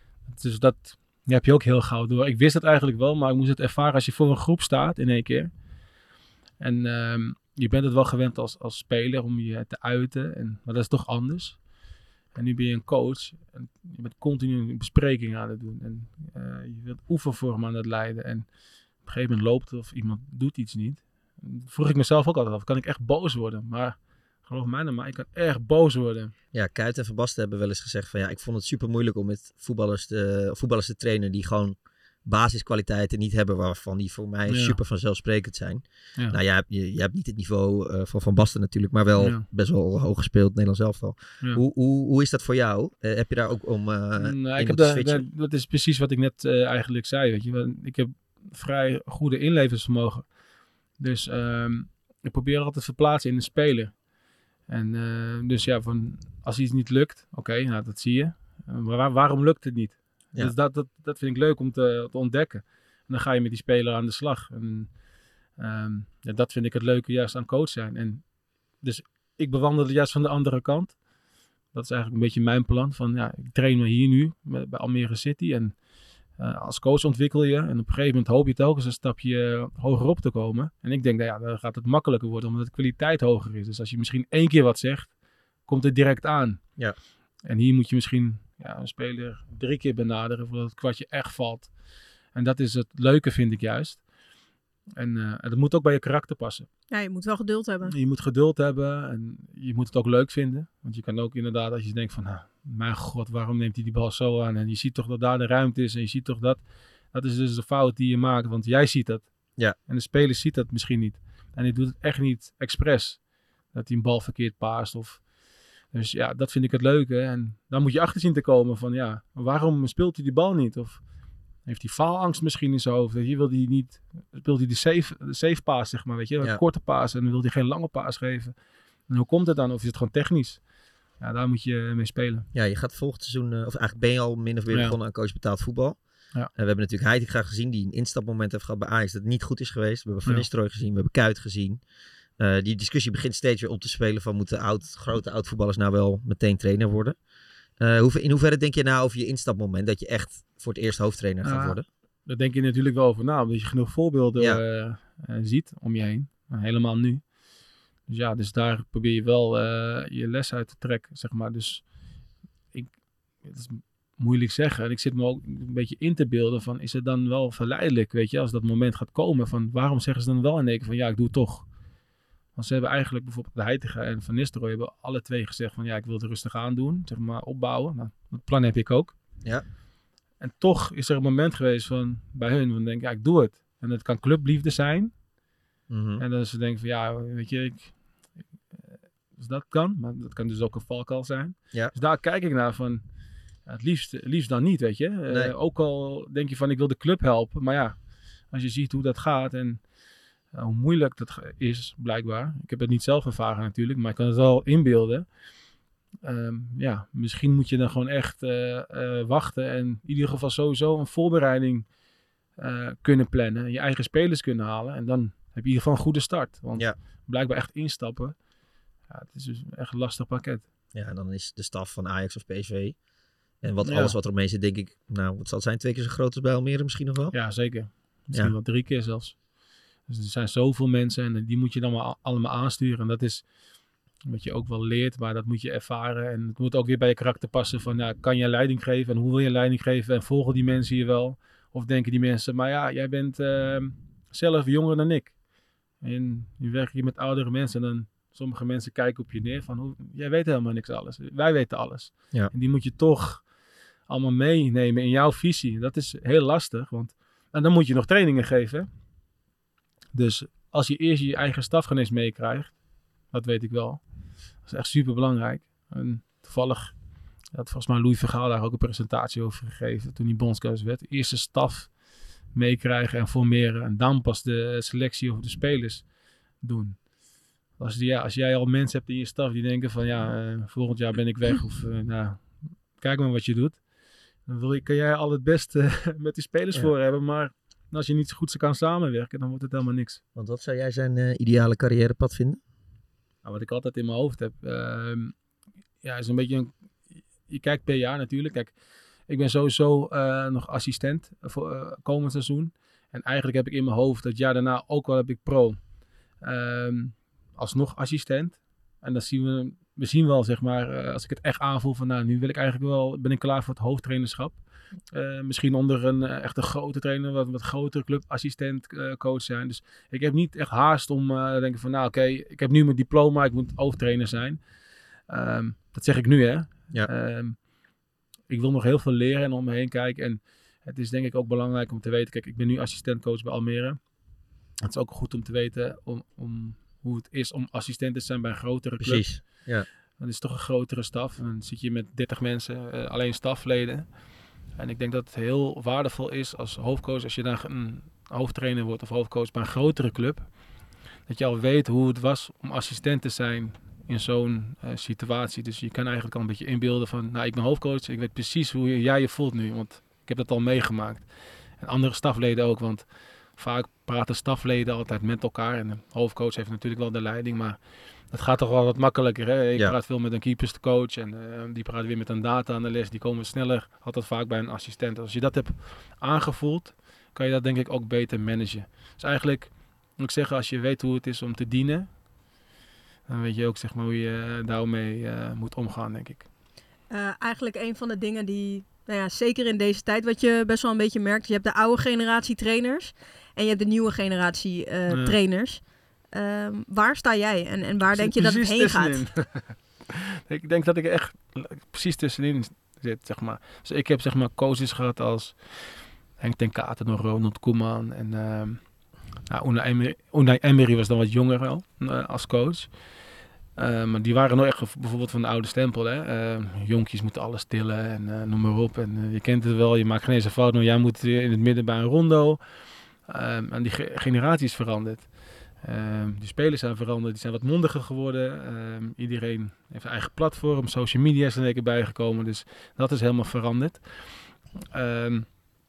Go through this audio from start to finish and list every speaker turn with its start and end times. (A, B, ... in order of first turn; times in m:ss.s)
0:00.2-0:05.5 A
0:06.6-0:11.6 A
0:12.3-0:18.5 A
0:19.0-0:26.3 A
0:26.5-0:45.2 B
0:34.5-0:34.8 A
0:39.2-0:39.5 A
0:44.2-0:50.3 A
0:51.0-0:54.0 A
0:54.7-1:05.0 A
1:05.6-1:11.0 A
1:11.7-1:15.8 A
1:16.4-1:25.1 A
1:25.7-1:26.6 A
1:27.4-1:31.7 A
1:32.3-1:34.0 A
1:35.0-1:36.7 A
1:36.9-1:37.9 C
1:37.9-1:49.3 A
1:49.8-1:55.2 A
1:55.9-2:01.0 A
2:01.6-2:08.5 A
2:09.1-2:10.7 A
2:11.2-2:12.4 A
2:12.5-2:21.8 B
2:14.7-2:15.0 A
2:22.4-2:27.2 B
2:27.8-2:31.8 B
2:31.4-2:37.2 A
2:38.1-2:41.9 A
2:42.7-2:51.7 A
2:52.6-2:59.1 A
3:00.4-3:05.1 A
3:05.9-3:06.2 B
3:06.2-3:08.0 A
3:09.3-3:13.0 A
3:13.6-3:18.0 A
3:15.3-3:15.5 B
3:18.5-3:19.8 A
3:20.5-3:25.2 A
3:26.2-3:31.8 A
3:32.6-3:38.4 A
3:39.1-3:40.6 A
3:40.9-3:43.0 B
3:43.6-3:47.4 B
3:43.8-3:44.1 A
3:47.3-3:49.4 A
3:50.1-3:53.5 A
3:54.2-4:05.4 A
4:06.0-4:13.5 A
4:14.1-4:18.9 A
4:20.1-4:24.0 A
4:24.6-4:27.0 A
4:27.5-4:37.1 A
4:37.8-4:43.8 A
4:44.4-4:50.2 A
4:50.3-4:52.6 B
4:53.4-4:55.3 A
4:56.0-4:56.7 A
4:57.4-4:58.7 A
4:59.3-5:05.8 A
5:06.4-5:24.6 A
5:25.2-5:27.6 A
5:28.5-5:34.1 A
5:34.8-5:50.5 A
5:39.0-5:39.9 B
5:51.2-6:22.2 A
6:23.3-6:26.5 A
6:27.1-6:39.2 C
6:35.1-6:35.4 A
6:38.1-6:53.1 A
6:53.8-7:02.6 A
7:03.2-7:15.6 A